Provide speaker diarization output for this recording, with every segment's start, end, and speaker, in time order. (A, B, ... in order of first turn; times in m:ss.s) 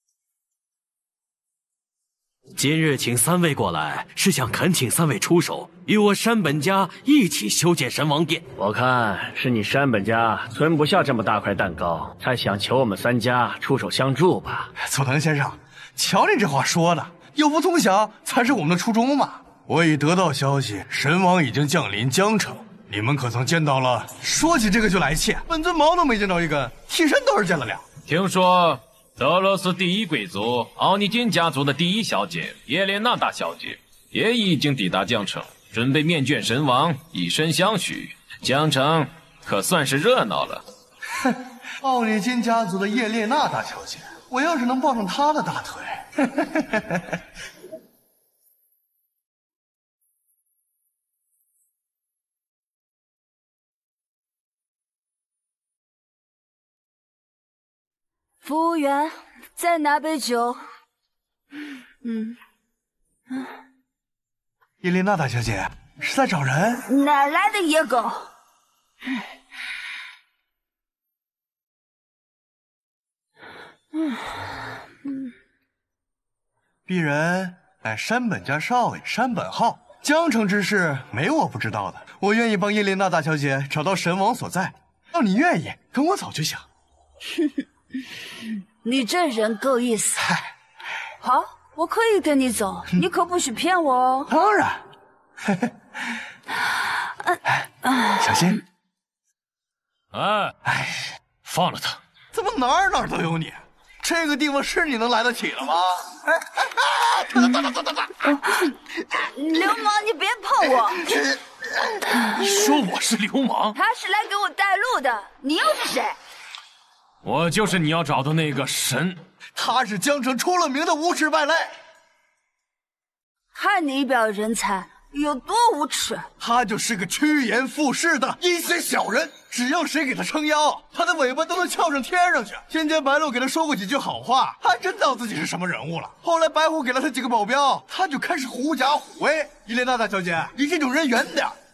0:02.6-0:08.4 A
0:08.6-0:14.7 B
0:14.8-0:27.8 C
0:28.1-0:40.6 D
0:41.3-0:47.0 C
0:58.4-1:00.6 E
1:02.0-1:02.4 E
1:04.8-1:06.8 C
1:06.8-1:08.3 E
1:16.9-1:26.6 C
1:28.8-1:30.3 E
1:31.2-1:34.3 E
1:34.3-1:34.8 C
1:38.1-1:38.6 C
1:40.1-1:40.5 D
1:40.7-1:41.0 C
1:41.4-1:42.0 D
1:42.3-1:48.4 C
1:49.3-1:51.0 E
1:50.6-1:52.2 C
1:52.4-1:53.8 D
1:53.7-1:56.1 E
1:57.2-1:59.2 D
1:59.6-2:01.8 C
2:03.5-2:06.2 E
2:06.4-2:21.6 C